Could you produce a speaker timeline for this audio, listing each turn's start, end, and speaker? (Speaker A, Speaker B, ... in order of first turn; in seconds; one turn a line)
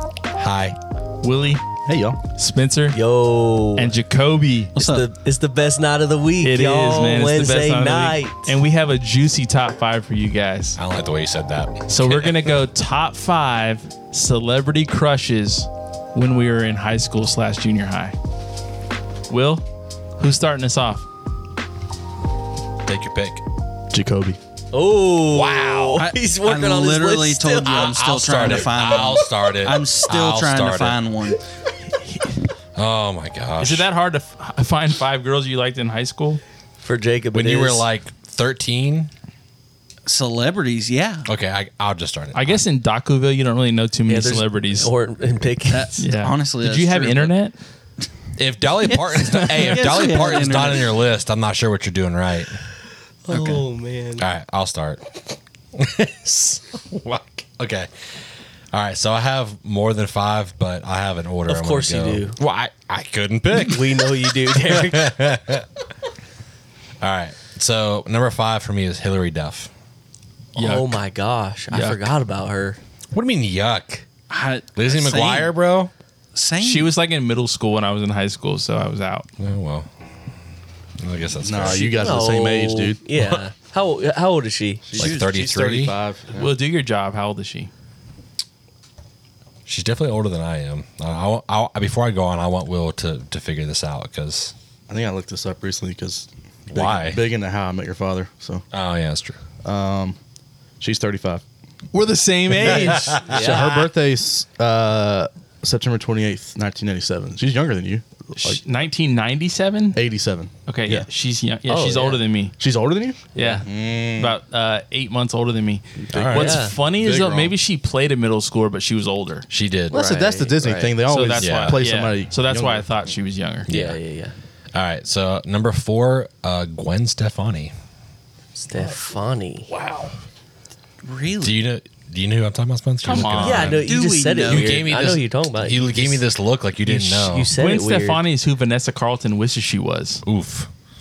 Speaker A: 0.3-0.8
Speaker B: 1.2-1.6
Speaker C: 1.9-2.2
Speaker B: 2.4-3.0
Speaker D: 2.9-4.0
Speaker B: 3.8-4.7
Speaker E: 4.8-5.1
Speaker D: 4.8-8.6
Speaker B: 6.4-10.8
Speaker A: 10.8-12.4
Speaker B: 11.9-18.2
Speaker B: 19.3-19.6
Speaker B: 20.2-21.1
Speaker A: 22.9-23.4
Speaker C: 23.9-24.4
Speaker D: 24.7-27.9
Speaker A: 25.3-26.1
Speaker E: 26.0-31.4
Speaker A: 27.6-31.0
Speaker B: 32.0-32.3
Speaker A: 32.8-33.9
Speaker B: 33.6-36.4
Speaker D: 36.8-37.9
Speaker A: 37.3-39.1
Speaker E: 40.1-41.3
Speaker A: 41.3-42.6
Speaker B: 42.3-44.9
Speaker D: 44.1-46.0
Speaker E: 45.7-47.3
Speaker B: 46.0-47.6
Speaker A: 48.4-52.6
Speaker E: 48.9-51.0
Speaker D: 53.3-54.3
Speaker A: 53.3-53.6
Speaker A: 54.2-65.7
Speaker D: 61.5-62.4
Speaker D: 63.6-65.2
Speaker A: 67.0-69.7
Speaker B: 70.6-71.0
Speaker D: 70.6-72.8
Speaker B: 71.7-72.2
Speaker A: 73.1-74.0
Speaker E: 74.3-75.5
Speaker A: 74.8-75.9
Speaker E: 76.3-76.9
Speaker B: 76.6-79.3
Speaker A: 79.4-79.9
Speaker A: 81.0-82.2
Speaker C: 81.4-83.1
Speaker D: 81.8-85.1
Speaker C: 84.9-86.5
Speaker E: 85.0-85.3
Speaker A: 85.0-86.0
Speaker B: 86.3-87.7
Speaker A: 89.7-94.5
Speaker C: 94.9-98.7
Speaker A: 96.7-97.2
Speaker A: 98.7-99.4
Speaker C: 99.6-100.2
Speaker C: 100.8-101.4
Speaker B: 101.9-103.2
Speaker C: 102.6-108.6
Speaker A: 102.8-103.6
Speaker D: 103.1-103.8
Speaker B: 108.4-110.0
Speaker C: 109.9-111.1
Speaker B: 110.7-112.6
Speaker D: 111.7-112.2
Speaker C: 112.6-114.4
Speaker D: 113.3-113.7
Speaker B: 113.4-119.5
Speaker C: 116.0-117.5
Speaker D: 116.3-116.8
Speaker A: 119.5-120.0
Speaker D: 119.9-121.0
Speaker C: 119.9-123.0
Speaker B: 121.1-123.7
Speaker A: 121.4-121.9
Speaker A: 123.7-124.0
Speaker D: 123.7-124.3
Speaker A: 124.7-127.7
Speaker D: 128.6-129.7
Speaker C: 129.7-130.1
Speaker E: 131.0-131.6
Speaker A: 131.4-133.9
Speaker B: 133.0-133.8
Speaker D: 133.2-136.2
Speaker E: 133.8-135.0
Speaker A: 134.4-137.5
Speaker B: 136.9-140.2
Speaker D: 136.9-138.2
Speaker A: 140.3-140.7